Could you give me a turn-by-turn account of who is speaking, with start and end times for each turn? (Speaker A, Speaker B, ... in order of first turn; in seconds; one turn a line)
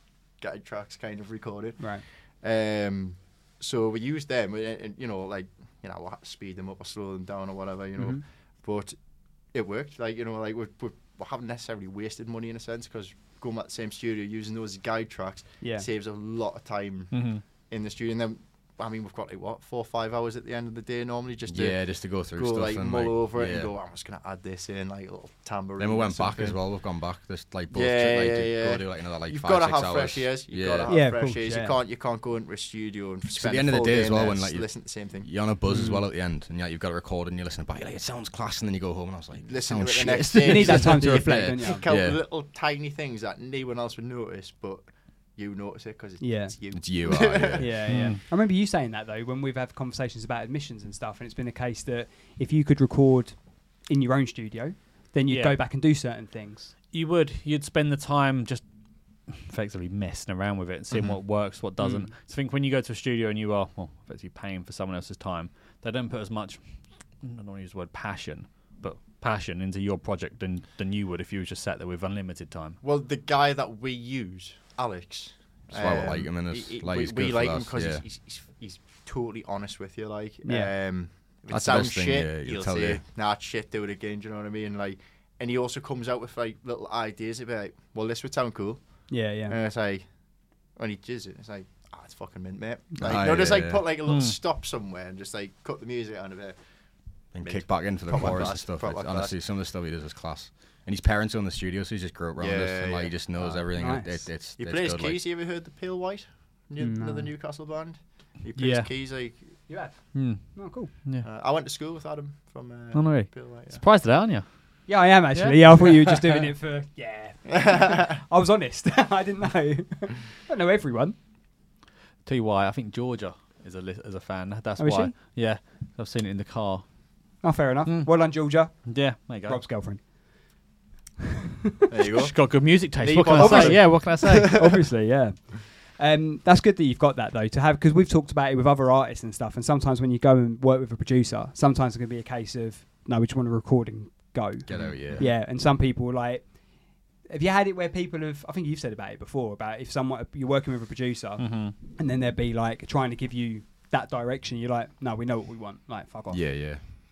Speaker A: 0.3-26.6
Speaker B: 1.8-2.0
Speaker B: 8.0-8.2
Speaker B: 15.6-15.8
Speaker C: 17.1-17.4
Speaker D: 21.5-23.7
Speaker D: 25.8-30.9
Speaker A: 27.7-35.4
Speaker B: 30.9-31.7
Speaker D: 33.3-42.2
Speaker B: 35.7-36.0
Speaker A: 39.4-47.8
Speaker B: 40.4-41.9
Speaker B: 46.2-46.5
Speaker D: 46.7-47.7
Speaker B: 47.6-56.7
Speaker C: 47.9-48.2
Speaker C: 55.3-55.6
Speaker C: 56.9-72.8
Speaker B: 61.8-62.1
Speaker A: 72.8-96.6
Speaker D: 75.7-78.0
Speaker B: 80.4-80.7
Speaker D: 81.5-83.0
Speaker B: 89.1-89.5
Speaker D: 93.0-93.8
Speaker C: 94.0-94.4
Speaker A: 97.3-99.3
Speaker D: 97.3-105.2
Speaker A: 102.4-103.7
Speaker B: 103.8-104.2
Speaker A: 104.6-109.7
Speaker B: 106.8-107.3
Speaker C: 108.5-108.9
Speaker B: 109.7-110.9
Speaker C: 110.1-111.2
Speaker A: 111.2-113.8
Speaker C: 112.9-116.4
Speaker B: 114.9-121.2
Speaker C: 122.2-129.6
Speaker B: 124.8-125.1
Speaker B: 127.4-130.6
Speaker A: 131.9-134.8
Speaker C: 132.0-134.6
Speaker B: 133.3-156.4
Speaker D: 144.7-145.3
Speaker C: 151.4-151.7
Speaker D: 156.3-156.8